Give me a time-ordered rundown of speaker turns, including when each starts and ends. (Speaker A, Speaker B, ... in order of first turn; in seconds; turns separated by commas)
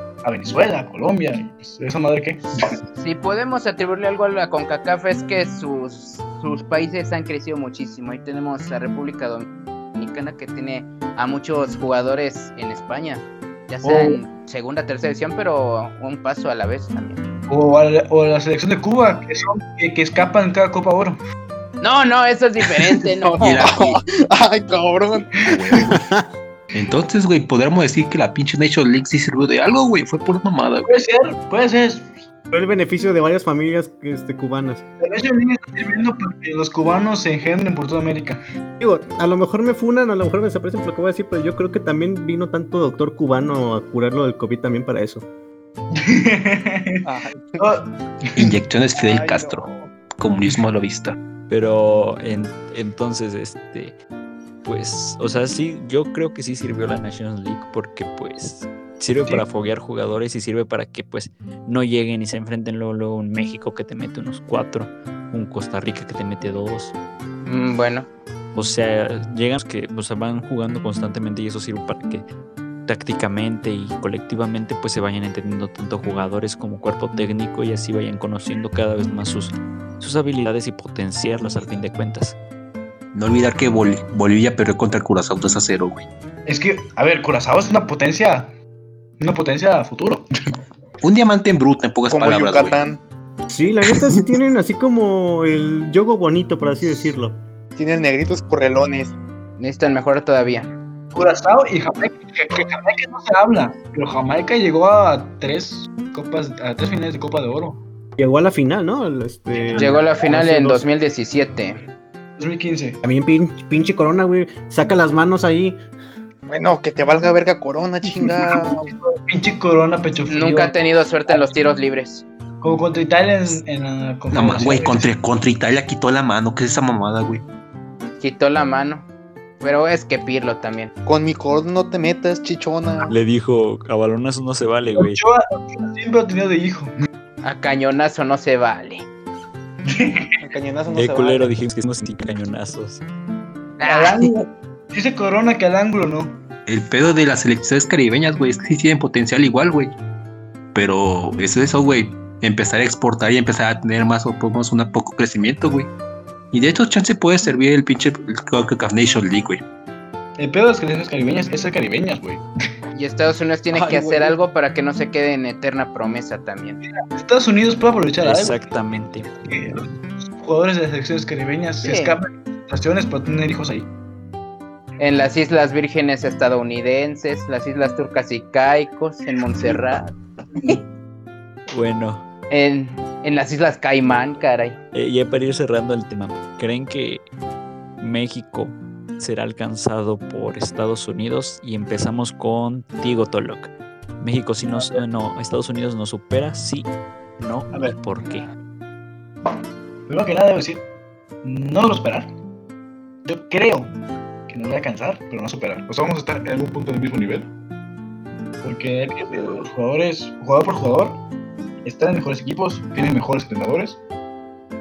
Speaker A: 0.2-2.8, Speaker B: 3.0-17.2, Speaker C: 13.8-14.2, Speaker A: 17.5-21.2, Speaker B: 21.8-23.9, Speaker D: 23.1-25.8, Speaker E: 23.4-24.0, Speaker E: 25.4-26.0, Speaker E: 26.7-30.9, Speaker A: 30.8-32.2, Speaker C: 32.5-34.8, Speaker A: 35.0-38.4, Speaker C: 38.8-45.3, Speaker A: 45.9-48.5, Speaker D: 47.0-47.7, Speaker E: 48.4-49.6, Speaker D: 49.0-49.9, Speaker E: 50.2-51.2, Speaker F: 51.5-54.0, Speaker F: 54.6-66.9, Speaker B: 67.5-68.1, Speaker F: 68.5-72.2, Speaker F: 72.9-82.4, Speaker E: 83.1-86.1, Speaker A: 86.5-88.5, Speaker A: 89.2-90.3, Speaker E: 91.0-92.8, Speaker D: 92.1-93.0, Speaker C: 93.5-97.4, Speaker D: 97.8-99.2, Speaker B: 99.6-100.7, Speaker A: 101.1-107.8, Speaker C: 108.2-110.9, Speaker B: 109.7-111.8, Speaker A: 112.4-113.0, Speaker C: 113.0-115.8, Speaker D: 116.5-118.9, Speaker A: 118.2-120.7, Speaker B: 120.3-122.2, Speaker A: 122.6-125.1, Speaker E: 124.3-127.4, Speaker B: 128.2-129.1, Speaker B: 129.6-130.9, Speaker D: 131.0-133.1, Speaker F: 133.1-135.2, Speaker A: 135.0-136.9, Speaker B: 137.4-139.0, Speaker A: 139.8-140.3, Speaker D: 140.4-141.5, Speaker F: 140.9-143.0, Speaker B: 143.8-144.3, Speaker A: 143.8-146.4, Speaker E: 146.7-150.0, Speaker E: 150.7-155.9, Speaker E: 156.5-159.6, Speaker A: 160.4-162.4, Speaker B: 162.9-166.8, Speaker D: 163.7-164.3, Speaker A: 167.0-168.6, Speaker F: 168.2-169.3, Speaker A: 169.4-173.9, Speaker B: 171.8-172.2, Speaker B: 175.0-180.8, Speaker F: 181.7-182.2, Speaker B: 182.5-184.8, Speaker F: 184.9-187.2, Speaker F: 188.0-198.5, Speaker A: 194.7-195.0, Speaker A: 200.1-200.8, Speaker A: 201.4-202.3, Speaker A: 203.2-203.9, Speaker A: 204.5-207.5, Speaker A: 208.6-211.2, Speaker A: 211.8-214.0